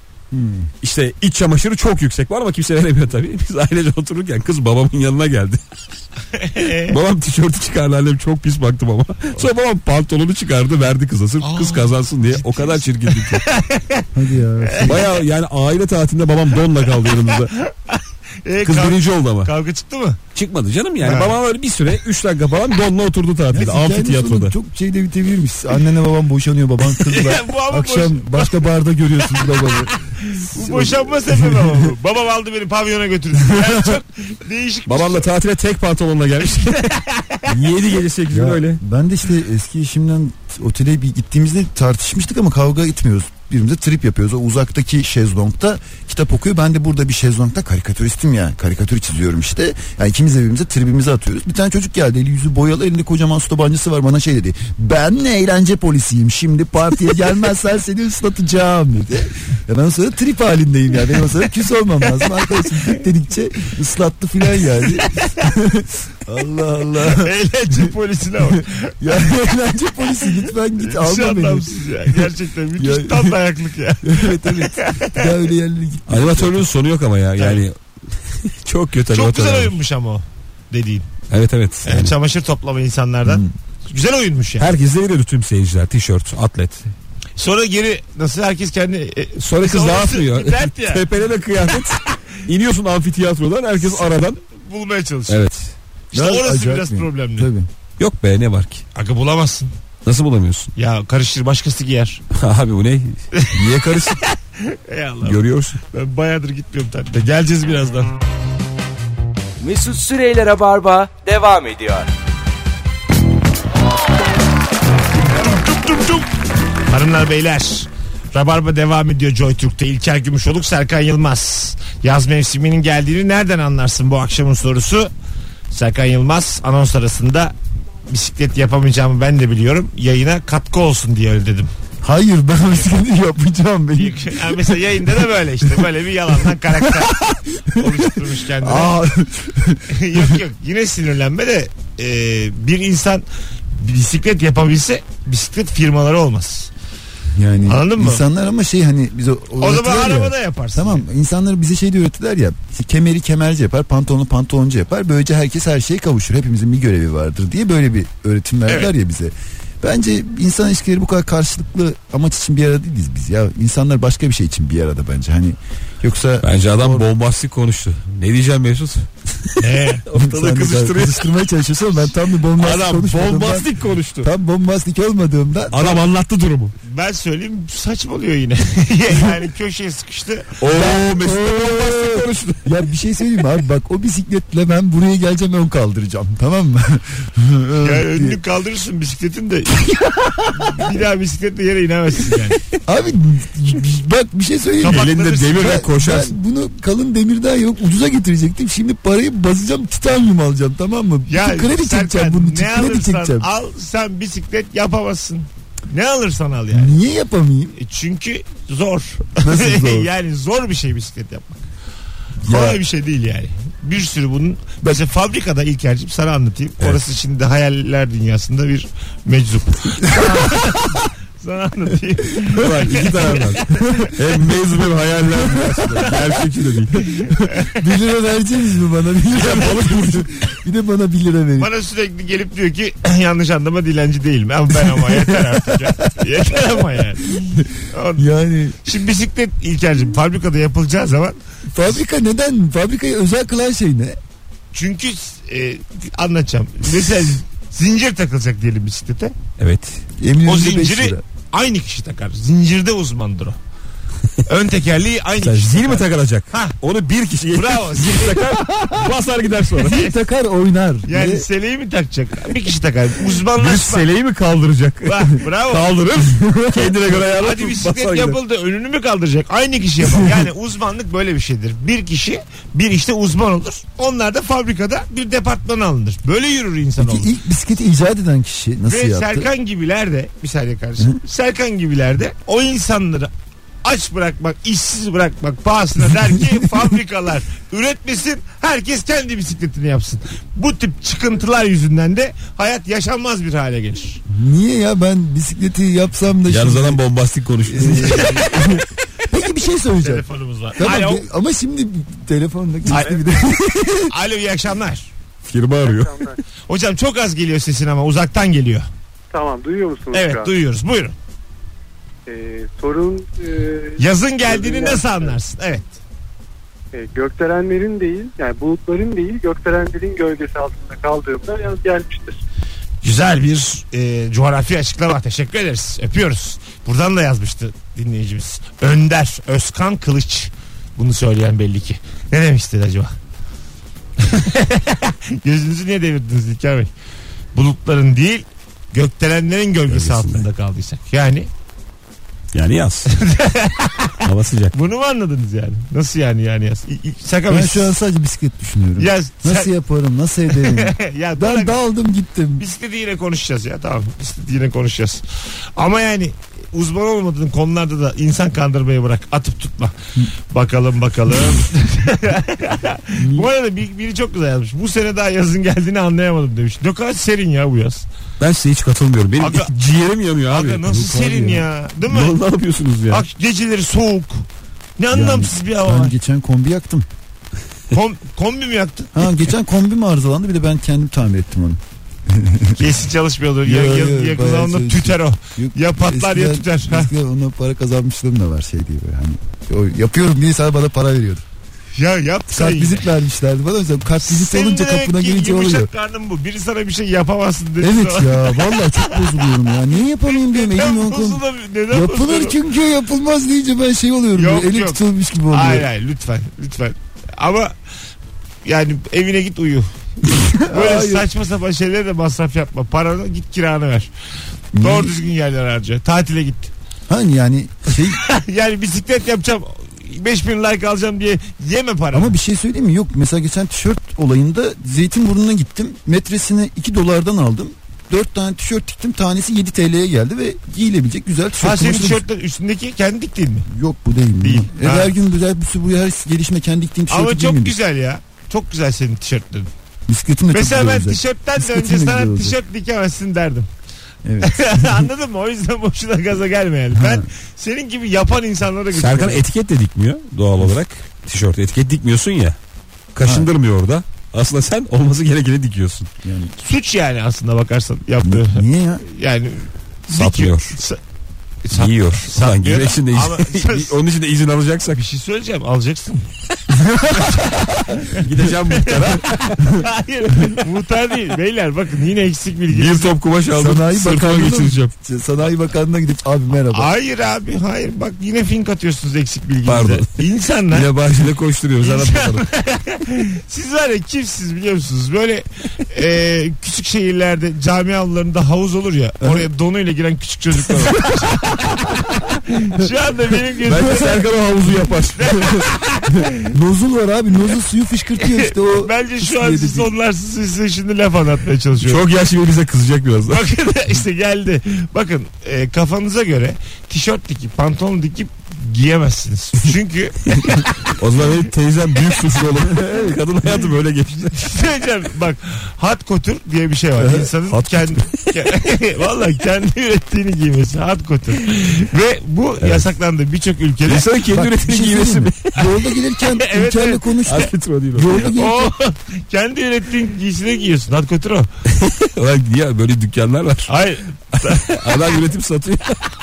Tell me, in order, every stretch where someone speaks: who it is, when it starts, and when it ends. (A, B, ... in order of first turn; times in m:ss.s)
0:00.3-0:00.7 A
0:00.8-0:05.6 B
0:06.3-0:07.0 C
0:06.9-0:13.4 B
0:11.4-0:14.1 C
0:14.1-0:15.1 A
0:14.6-0:15.0 C
0:14.9-0:17.5 B
0:17.0-0:20.2 C
0:18.6-0:19.5 B
0:20.4-0:24.5 B
0:21.0-0:21.4 C
0:23.5-0:31.9 A
0:27.0-0:28.7 C
0:30.1-0:35.3 C
0:34.9-0:38.8 B
0:36.6-0:37.5 C
0:38.3-1:07.3 A
1:02.2-1:03.0 C
1:04.6-1:05.5 C
1:07.0-1:09.0 C
1:08.6-1:13.4 A
1:10.8-1:15.3 C
1:14.0-1:16.6 A
1:16.1-1:19.8 B
1:17.4-1:17.6 C
1:19.1-1:21.1 C
1:21.3-1:22.1 B
1:21.8-1:24.7 C
1:24.6-1:26.9 B
1:27.4-1:31.1 C
1:29.4-1:34.4 B
1:31.7-1:32.0 C
1:33.9-1:35.4 C
1:35.3-1:35.7 B
1:36.1-1:37.5 C
1:36.1-1:37.7 A
1:38.0-1:38.8 B
1:39.0-1:39.7 C
1:40.0-1:40.7 B
1:40.8-1:42.2 C
1:42.3-1:44.2 B
1:43.3-1:43.6 C
1:44.2-1:48.1 C
1:45.2-1:45.8 B
1:49.6-1:52.1 D
1:55.4-1:56.3 C
1:56.9-2:05.1 C
2:05.7-2:07.5 C
2:08.1-2:11.7 C
2:12.0-2:15.1 A
2:14.0-2:17.2 C
2:16.9-2:20.4 A
2:17.7-2:19.0 C
2:19.9-2:23.2 C
2:23.8-2:26.7 C
2:27.4-2:47.0 A
2:27.7-2:28.2 C
2:29.6-2:31.0 C
2:38.7-2:38.9 C
2:46.4-2:51.3 B
2:49.6-2:50.0 C
2:50.1-2:56.0 A
2:52.6-2:54.3 B
2:55.7-2:56.7 B
2:56.8-3:00.5 C
3:00.6-3:02.6 B
3:00.7-3:08.4 A
3:07.8-3:12.6 C
3:10.0-3:10.7 A
3:12.8-3:23.5 A
3:14.8-3:15.8 C
3:14.8-3:16.4 B
3:21.3-3:27.0 C
3:26.7-3:27.8 A
3:27.8-3:31.6 C
3:29.4-3:30.1 A
3:32.4-3:32.8 A
3:32.5-3:44.1 C
3:40.0-3:40.7 A
3:42.5-3:47.3 B
3:43.7-3:44.1 A
3:45.4-3:46.2 A
3:47.5-3:47.8 C
3:47.7-3:51.7 A
3:49.4-3:50.3 B
3:51.6-3:58.3 C
3:57.4-3:58.9 A
3:58.8-4:01.4 C
4:01.7-4:04.2 A
4:04.7-4:09.4 C
4:09.6-4:10.0 B
4:10.2-4:11.2 A
4:10.5-4:13.6 C
4:14.5-4:16.8 C
4:15.4-4:20.1 B
4:17.5-4:18.5 C
4:19.8-4:21.5 A
4:21.1-4:24.1 C
4:23.6-4:28.4 B
4:25.0-4:25.9 C
4:26.8-4:37.3 C
4:37.0-4:39.5 A
4:38.9-4:43.3 C
4:43.8-4:54.2 C
4:54.3-4:57.0 A
4:56.5-4:58.8 B
4:57.6-5:03.7 A
4:58.0-4:58.7 C
5:00.0-5:01.3 C
5:02.9-5:03.2 C
5:03.4-5:04.1 B
5:04.1-5:05.1 C
5:05.5-5:06.3 B
5:05.8-5:06.4 E
5:06.7-5:08.9 C
5:09.3-5:10.5 E
5:10.1-5:11.2 C
5:12.3-5:15.4 E
5:14.0-5:16.0 C
5:16.9-5:22.4 E
5:23.0-5:33.1 C
5:34.2-5:36.9 C
5:37.5-5:41.5 C
5:39.9-5:40.5 B
5:42.5-5:43.1 B
5:43.1-5:47.9 C
5:44.2-5:44.7 B
5:47.5-5:52.6 A
5:49.0-5:49.7 C
5:50.5-5:51.8 C
5:52.6-5:55.2 C
5:55.8-6:00.0 C
6:00.5-6:08.1 C
6:08.4-6:11.1 B
6:09.4-6:09.7 C
6:10.5-6:12.4 C
6:10.9-6:11.6 A
6:12.1-6:13.3 B
6:13.1-6:14.5 C
6:15.0-6:16.2 C
6:15.1-6:17.1 A
6:17.9-6:19.3 C
6:19.1-6:22.8 A
6:22.8-6:27.1 C
6:23.6-6:31.4 A
6:32.0-6:33.1 C
6:32.5-6:35.9 A
6:34.2-6:42.6 C
6:37.8-6:45.9 A
6:44.4-6:47.8 C
6:48.6-6:54.1 C
6:50.3-6:51.3 A
6:54.7-6:55.2 A
6:54.8-6:56.7 C
6:57.1-6:58.2 A
6:58.1-7:02.4 C
7:02.1-7:12.2 A
7:11.6-7:13.7 C
7:13.7-7:17.8 A
7:14.4-7:15.1 C
7:17.1-7:19.7 C
7:20.1-7:22.6 A
7:20.5-7:23.7 C
7:24.2-7:25.0 A
7:24.4-7:29.4 C
7:26.9-7:27.3 A
7:28.9-7:32.6 B
7:33.1-7:36.1 B
7:33.2-7:33.5 A
7:36.2-7:36.5 A
7:36.6-7:41.0 C
7:38.2-7:39.0 A
7:40.1-7:40.8 B
7:41.6-7:44.0 C
7:41.7-7:45.0 B
7:44.9-7:46.3 C
7:47.1-7:53.1 C
7:48.0-7:49.9 B
7:52.7-7:54.9 B
7:53.6-7:56.9 A
7:56.7-8:00.9 C
7:59.7-8:02.4 B
8:01.8-8:14.2 C
8:09.2-8:09.5 A
8:13.7-8:15.7 B
8:15.2-8:16.5 C
8:16.5-8:19.9 A
8:18.2-8:22.0 C
8:21.8-8:23.5 B
8:23.3-8:30.9 C
8:30.9-8:34.6 B
8:32.7-8:33.2 A
8:34.3-8:44.1 C
8:37.0-8:37.3 A
8:37.5-8:38.3 B
8:42.6-8:42.9 B
8:43.9-8:45.5 B
8:44.3-8:48.7 A
8:46.3-8:47.2 C
8:47.3-8:48.3 B
8:48.3-8:51.5 C
8:51.7-8:53.7 B
8:53.7-8:55.2 C
8:54.3-8:56.0 B